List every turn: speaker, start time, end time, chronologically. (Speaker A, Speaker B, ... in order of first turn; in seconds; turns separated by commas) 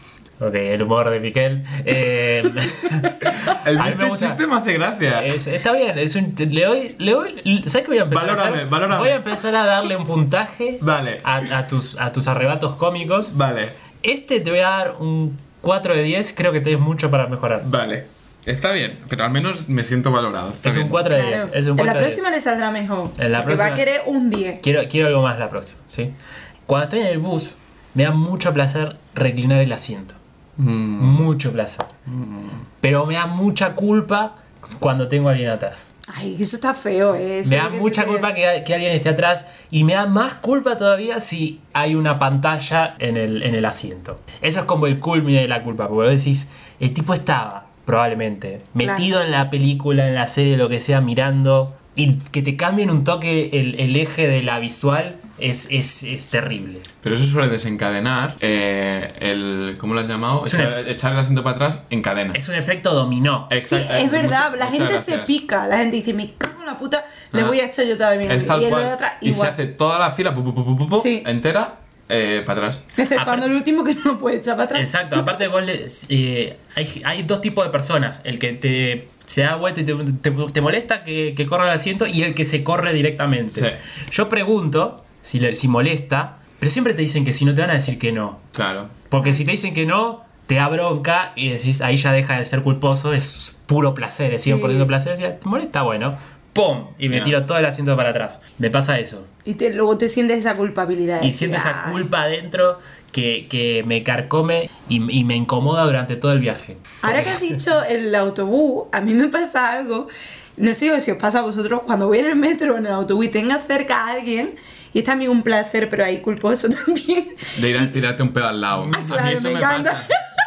Speaker A: 0.4-4.4, Speaker B: 3.4-5.3, Speaker A: 5.1-13.3, Speaker B: 8.1-9.2, Speaker B: 10.8-11.4, Speaker B: 13.3-13.8, Speaker A: 14.0-17.7, Speaker B: 17.6-21.1, Speaker A: 20.6-22.2, Speaker C: 21.1-24.6, Speaker A: 23.2-23.8, Speaker A: 24.6-26.1, Speaker A: 26.7-30.2, Speaker B: 30.6-31.3, Speaker A: 31.0-31.9, Speaker B: 32.0-32.6, Speaker A: 32.8-35.9, Speaker C: 36.1-38.3, Speaker A: 37.4-56.9, Speaker C: 48.8-49.1, Speaker B: 57.0-62.4, Speaker A: 60.4-60.8, Speaker A: 62.3-63.5, Speaker B: 63.5-65.3, Speaker C: 63.7-69.6, Speaker B: 67.3-67.6, Speaker B: 68.2-72.8, Speaker C: 71.0-71.3, Speaker C: 73.0-75.2, Speaker A: 73.1-73.5, Speaker A: 74.7-88.4, Speaker B: 83.5-83.8, Speaker B: 88.5-88.9, Speaker A: 89.1-99.3, Speaker C: 94.4-94.9, Speaker B: 97.1-97.3, Speaker C: 99.5-102.0, Speaker A: 101.2-107.5, Speaker C: 107.0-118.0, Speaker B: 117.5-120.1, Speaker C: 118.8-120.1